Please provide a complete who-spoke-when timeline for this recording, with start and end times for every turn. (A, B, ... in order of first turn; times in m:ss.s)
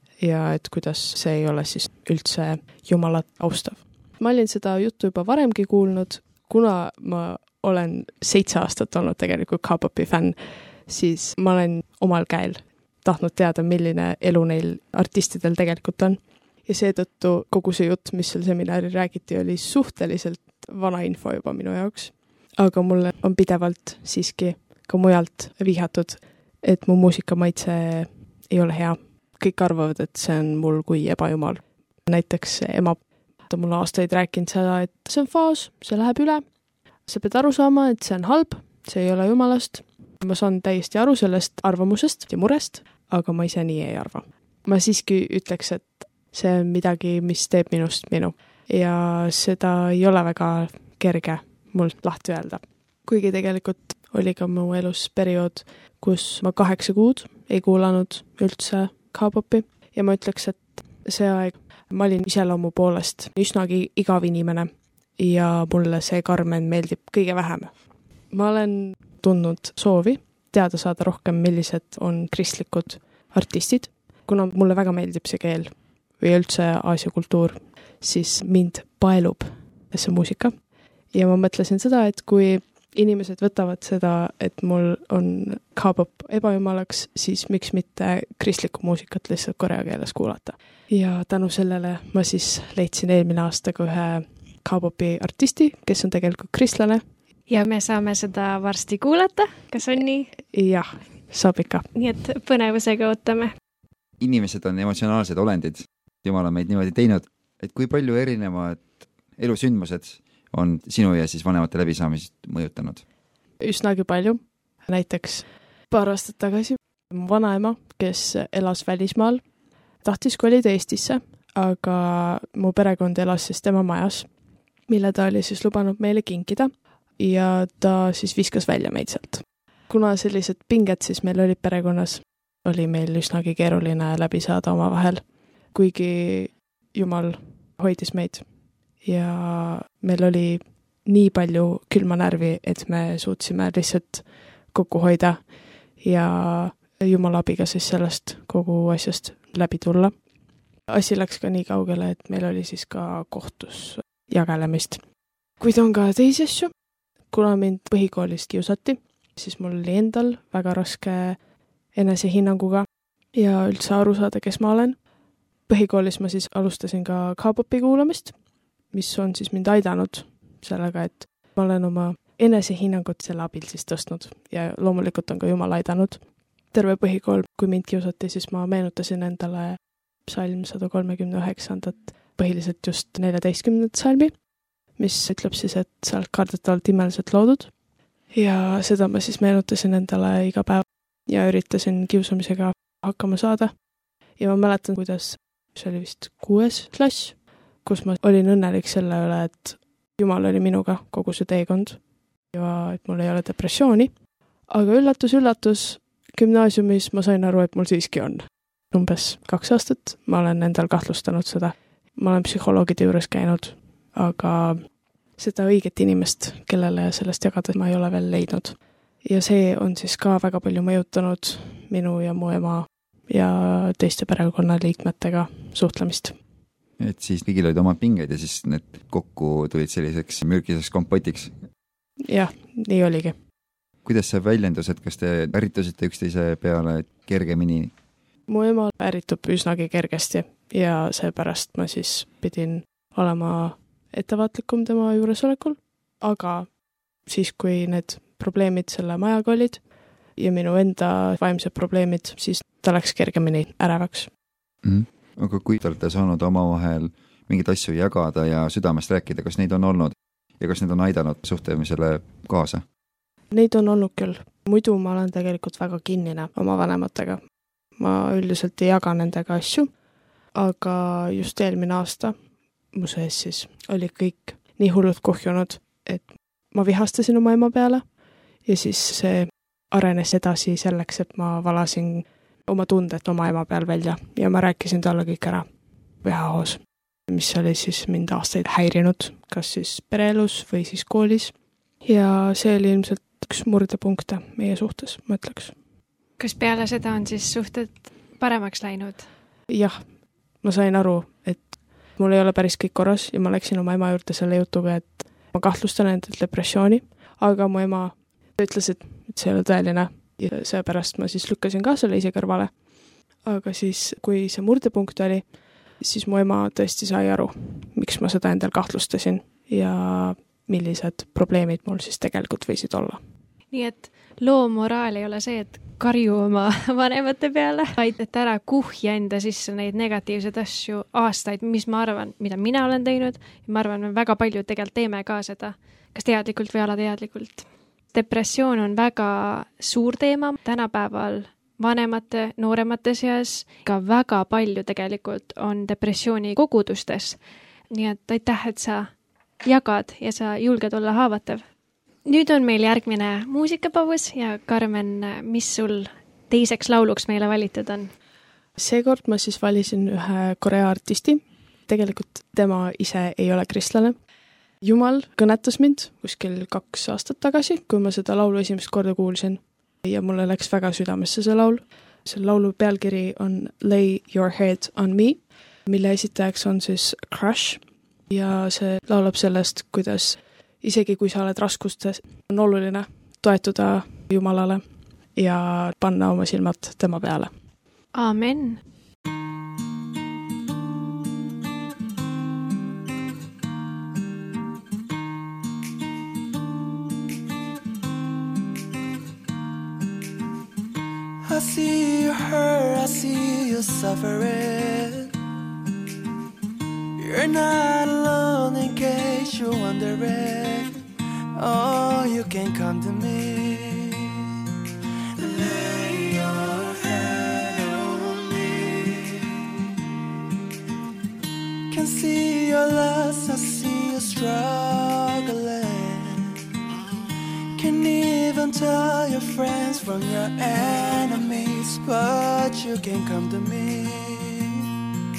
0:00.2-0:36.4 A
0:37.1-1:07.7 A
1:08.3-1:20.5 A
1:21.1-1:37.0 A
1:37.5-1:40.3 B
1:40.5-1:41.9 A
1:42.0-1:43.5 B
1:44.2-1:53.0 C
1:53.6-1:59.4 A
2:00.0-2:04.3 A
2:04.9-2:18.5 A
2:19.0-2:25.4 A
2:26.0-2:30.1 A
2:30.9-2:35.0 A
2:35.6-2:36.7 A
2:37.3-2:41.4 A
2:42.0-2:45.0 A
2:45.7-2:48.4 A
2:48.9-2:56.2 A
2:56.7-3:04.3 A
3:05.0-3:07.7 A
3:08.3-3:13.7 A
3:14.4-3:22.0 A
3:22.5-3:24.1 A
3:24.7-3:34.8 A
3:35.4-3:46.4 A
3:47.0-3:51.6 C
3:52.2-3:53.4 A
3:54.0-3:57.9 C
3:58.5-4:06.7 A
4:07.3-4:09.8 A
4:10.4-4:14.3 A
4:14.8-4:22.8 C
4:23.5-4:27.4 A
4:28.0-4:29.9 A
4:30.6-4:32.4 A
4:32.9-4:38.0 A
4:38.6-4:45.7 A
4:46.2-4:51.5 A
4:52.0-4:55.8 A
4:56.4-4:59.3 B
4:59.7-5:00.1 A
5:00.6-5:12.7 A
5:13.4-5:23.2 A
5:23.7-5:47.4 B
5:47.9-5:49.1 B
5:49.6-5:51.6 B
5:52.2-5:58.1 B
5:58.8-6:04.2 A
6:04.8-6:24.8 A
6:25.4-6:27.5 A
6:28.1-6:28.8 B
6:41.4-6:45.3 D
6:47.2-6:54.4 D
6:55.4-6:59.6 D
7:01.9-7:06.6 D
7:07.8-7:14.8 D